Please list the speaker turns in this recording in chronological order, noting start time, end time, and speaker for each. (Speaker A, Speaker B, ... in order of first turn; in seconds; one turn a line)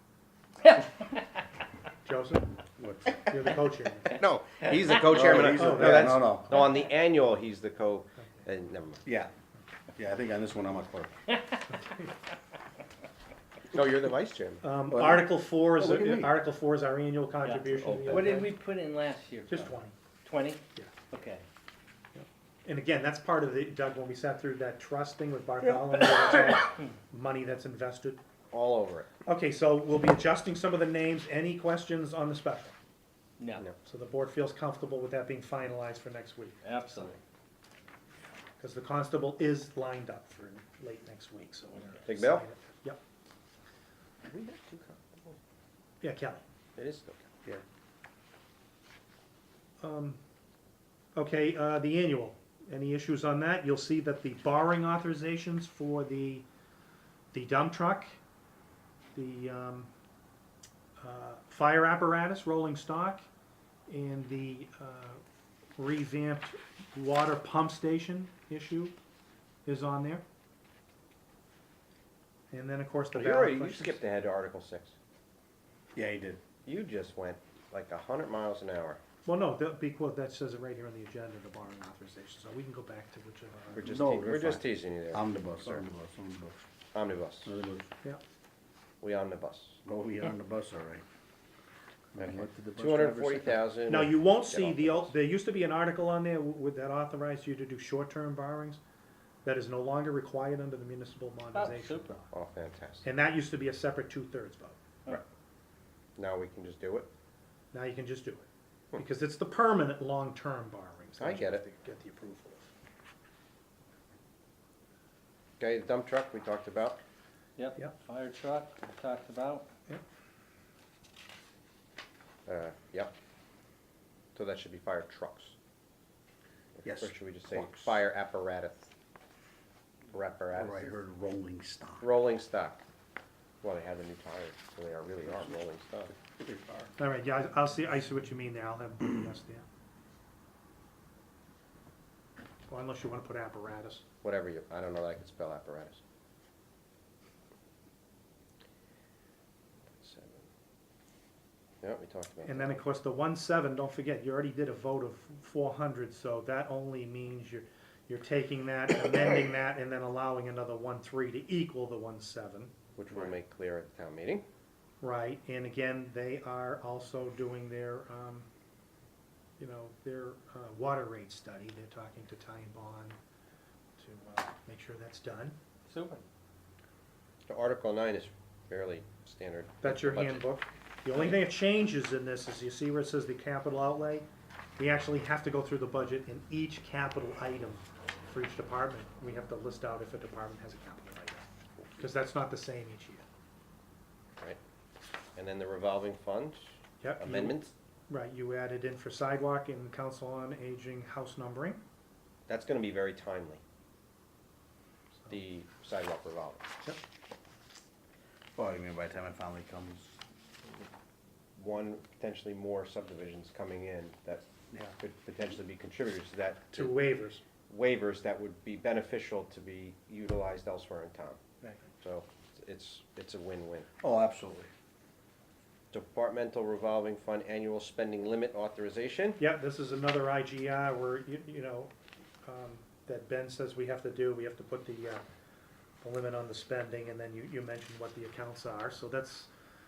Speaker A: 0.6-1.2
Speaker B: 2.0-2.5
Speaker C: 2.8-3.3
Speaker B: 3.3-4.2
Speaker D: 4.1-9.0
Speaker C: 5.1-6.7
Speaker B: 5.4-6.6
Speaker C: 9.1-9.3
Speaker C: 10.0-11.1
Speaker B: 11.7-12.1
Speaker D: 13.7-14.7
Speaker B: 14.6-18.6
Speaker C: 14.9-16.4
Speaker A: 17.4-19.7
Speaker D: 17.8-18.4
Speaker B: 19.5-19.9
Speaker A: 20.2-21.4
Speaker B: 22.1-28.2
Speaker D: 28.5-29.1
Speaker B: 29.3-32.8
Speaker B: 33.8-36.6
Speaker A: 36.6-37.2
Speaker B: 38.6-43.0
Speaker D: 42.0-42.5
Speaker D: 44.2-45.4
Speaker B: 46.0-46.4
Speaker D: 46.8-47.3
Speaker B: 49.8-50.2
Speaker B: 51.1-56.5
Speaker B: 57.3-58.1
Speaker B: 59.1-59.9
Speaker B: 61.0-63.2
Speaker B: 63.9-65.2
Speaker B: 65.8-69.0
Speaker B: 69.7-70.2
Speaker B: 72.5-74.0
Speaker D: 73.1-75.0
Speaker C: 76.0-76.4
Speaker D: 76.7-79.0
Speaker B: 79.2-83.9
Speaker D: 83.8-85.9
Speaker C: 83.8-86.7
Speaker D: 86.9-87.5
Speaker C: 87.4-87.9
Speaker D: 89.0-89.8
Speaker C: 89.8-91.0
Speaker C: 92.2-93.6
Speaker D: 92.2-95.1
Speaker B: 93.9-98.8
Speaker B: 99.4-102.3
Speaker A: 101.5-102.2
Speaker D: 102.3-103.1
Speaker B: 103.0-104.8
Speaker D: 106.2-107.1
Speaker B: 107.7-112.7
Speaker D: 111.2-111.6
Speaker D: 115.6-117.0
Speaker A: 117.6-119.7
Speaker D: 122.5-123.1
Speaker D: 124.4-125.5
Speaker D: 126.8-128.9
Speaker C: 126.8-128.0
Speaker D: 130.1-130.9
Speaker C: 130.6-132.1
Speaker D: 132.0-132.8
Speaker D: 133.6-136.1
Speaker C: 136.4-136.9
Speaker B: 137.0-139.6
Speaker B: 142.7-144.0
Speaker D: 144.2-146.0
Speaker D: 149.9-150.5
Speaker D: 151.8-152.8
Speaker B: 152.4-163.4
Speaker D: 163.0-164.4
Speaker B: 165.0-168.5
Speaker B: 169.6-173.2
Speaker B: 174.0-175.6
Speaker A: 175.9-176.2
Speaker D: 177.5-180.5
Speaker B: 179.8-184.3
Speaker B: 184.8-191.5
Speaker B: 192.0-193.2
Speaker D: 195.4-197.7
Speaker B: 197.0-201.8
Speaker D: 202.5-203.6
Speaker D: 205.3-206.6
Speaker C: 208.6-210.1
Speaker D: 211.6-217.0
Speaker B: 216.7-217.4
Speaker D: 217.7-221.4
Speaker D: 222.0-223.9
Speaker C: 224.0-224.7
Speaker D: 225.9-229.4
Speaker B: 229.4-231.9
Speaker B: 232.4-235.2
Speaker B: 236.0-239.5